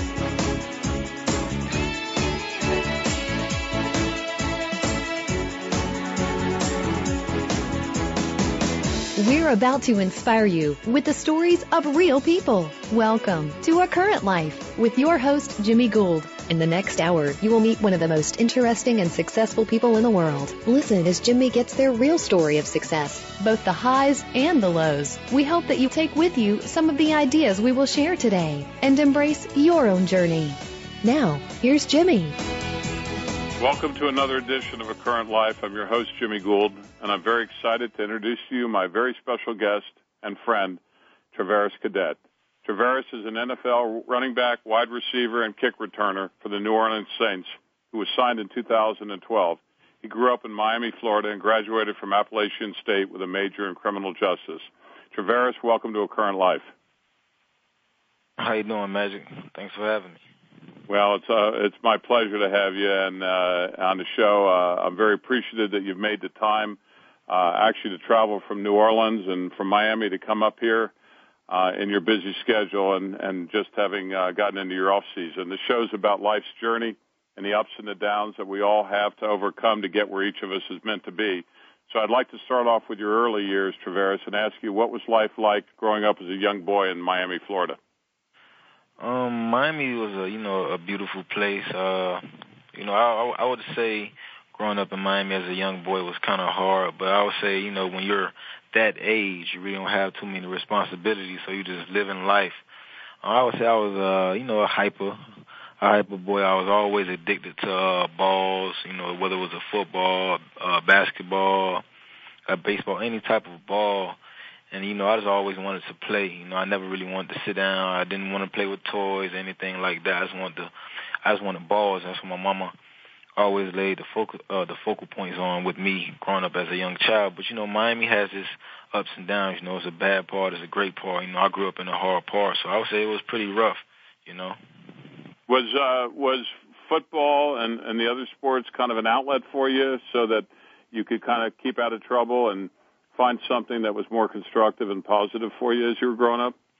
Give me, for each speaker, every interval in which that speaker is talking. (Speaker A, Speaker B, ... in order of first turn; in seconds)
Speaker A: 9.2-32.4
Speaker B: 33.6-40.8, 41.3-56.7, 60.9-70.9, 71.5-87.8, 135.5-146.5
Speaker C: 58.4-60.2, 89.0-102.6, 103.2-111.8, 112.5-114.2, 114.7-120.7, 121.2-122.7, 123.4-134.6